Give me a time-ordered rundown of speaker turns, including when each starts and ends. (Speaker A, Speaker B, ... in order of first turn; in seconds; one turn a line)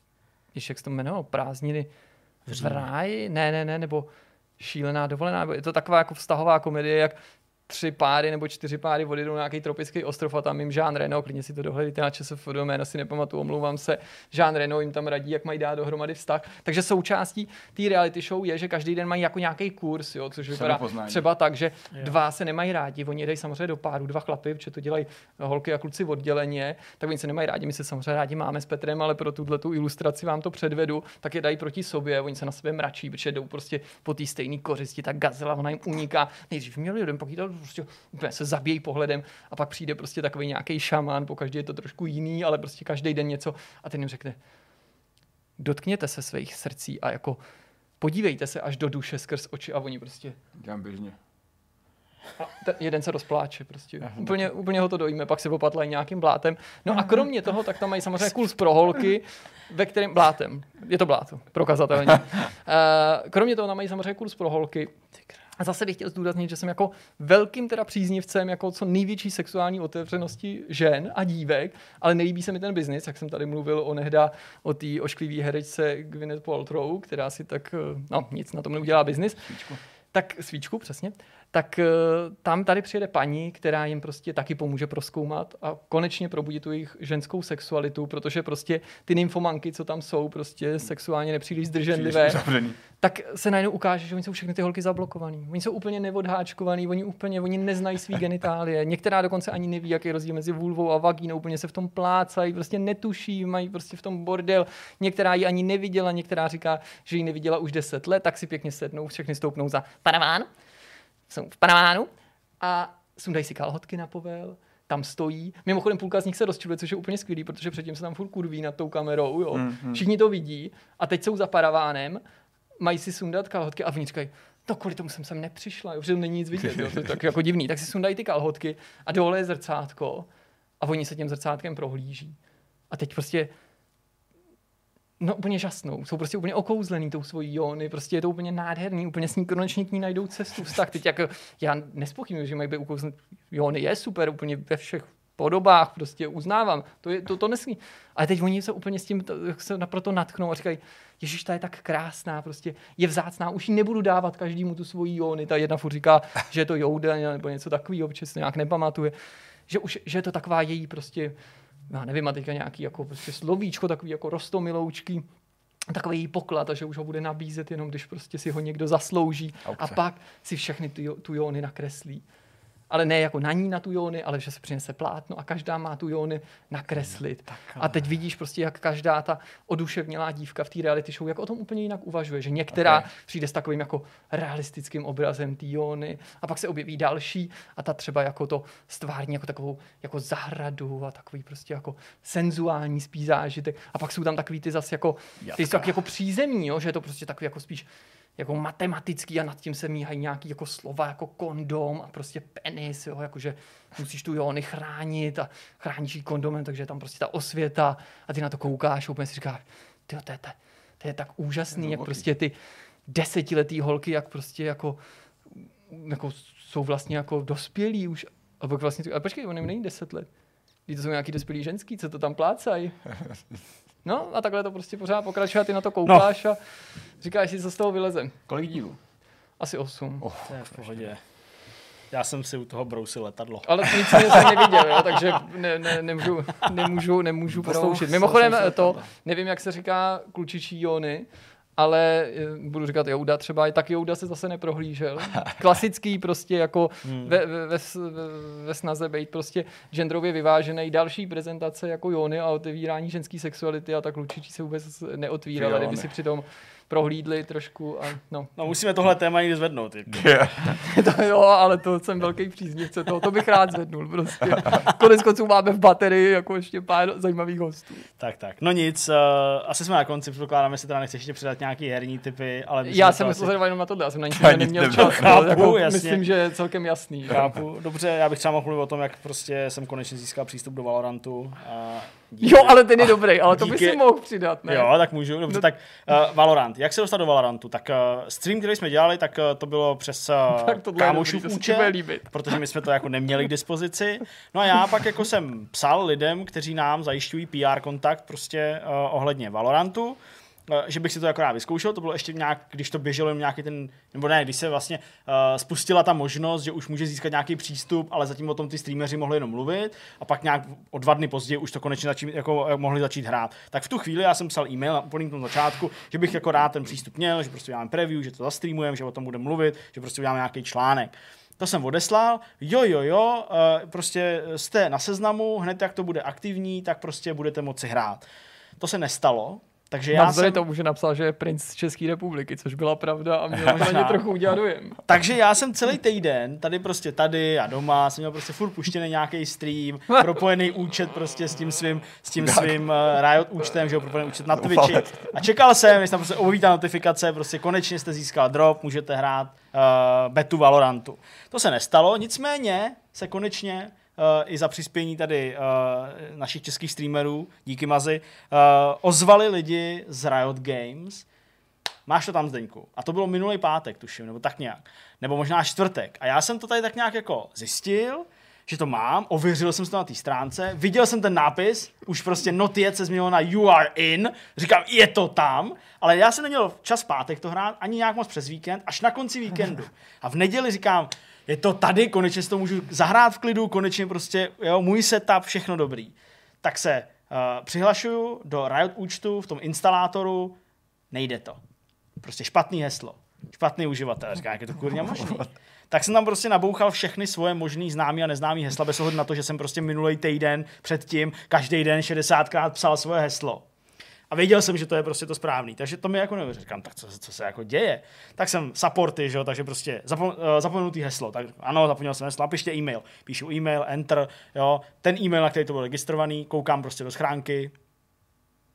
Speaker A: 0.5-1.9
Speaker B: 2.5-2.8
Speaker A: 2.6-7.2
Speaker A: 7.7-44.4
Speaker C: 20.5-21.2
Speaker A: 45.6-47.4
Speaker A: 48.0-50.4
Speaker C: 50.6-51.1
Speaker A: 52.4-64.9
Speaker C: 54.0-54.5
Speaker A: 65.6-79.5
Speaker C: 78.9-79.8
Speaker A: 80.1-92.4
Speaker C: 91.9-92.8
Speaker A: 93.0-110.5
Speaker A: 111.3-122.2
Speaker C: 119.5-120.0
Speaker A: 122.8-130.3
Speaker C: 126.6-127.1
Speaker A: 130.8-132.4
Speaker A: 132.9-133.5
Speaker A: 135.2-159.1
Speaker A: 159.7-161.3
Speaker A: 161.9-165.3
Speaker A: 165.9-172.2
Speaker C: 169.7-170.0
Speaker A: 172.9-212.6
Speaker C: 182.7-183.1
Speaker C: 195.4-195.9
Speaker C: 211.7-212.3
Speaker A: 213.1-215.0
Speaker A: 215.5-220.3
Speaker A: 220.9-223.0
Speaker C: 223.1-223.4
Speaker A: 224.0-226.6
Speaker A: 227.2-228.4
Speaker C: 228.5-229.0
Speaker A: 229.6-230.3
Speaker C: 230.2-231.1
Speaker B: 230.5-231.2
Speaker B: 232.1-235.2
Speaker A: 233.7-258.5
Speaker C: 237.5-239.1
Speaker B: 247.1-247.3
Speaker C: 255.6-256.1
Speaker B: 258.6-260.3
Speaker C: 260.1-260.8
Speaker A: 260.8-268.1
Speaker B: 268.2-273.6
Speaker A: 272.8-277.5
Speaker C: 274.3-275.6
Speaker B: 274.9-276.3
Speaker B: 277.3-284.0
Speaker A: 282.4-284.9
Speaker B: 284.7-328.2
Speaker A: 290.5-292.4
Speaker B: 328.8-330.6
Speaker A: 330.1-335.0
Speaker B: 333.8-334.3
Speaker B: 335.1-361.2
Speaker C: 342.4-342.8
Speaker C: 344.5-345.4
Speaker B: 362.1-390.6
Speaker B: 391.1-391.6
Speaker B: 392.2-403.6
Speaker C: 394.9-395.5
Speaker B: 404.3-417.7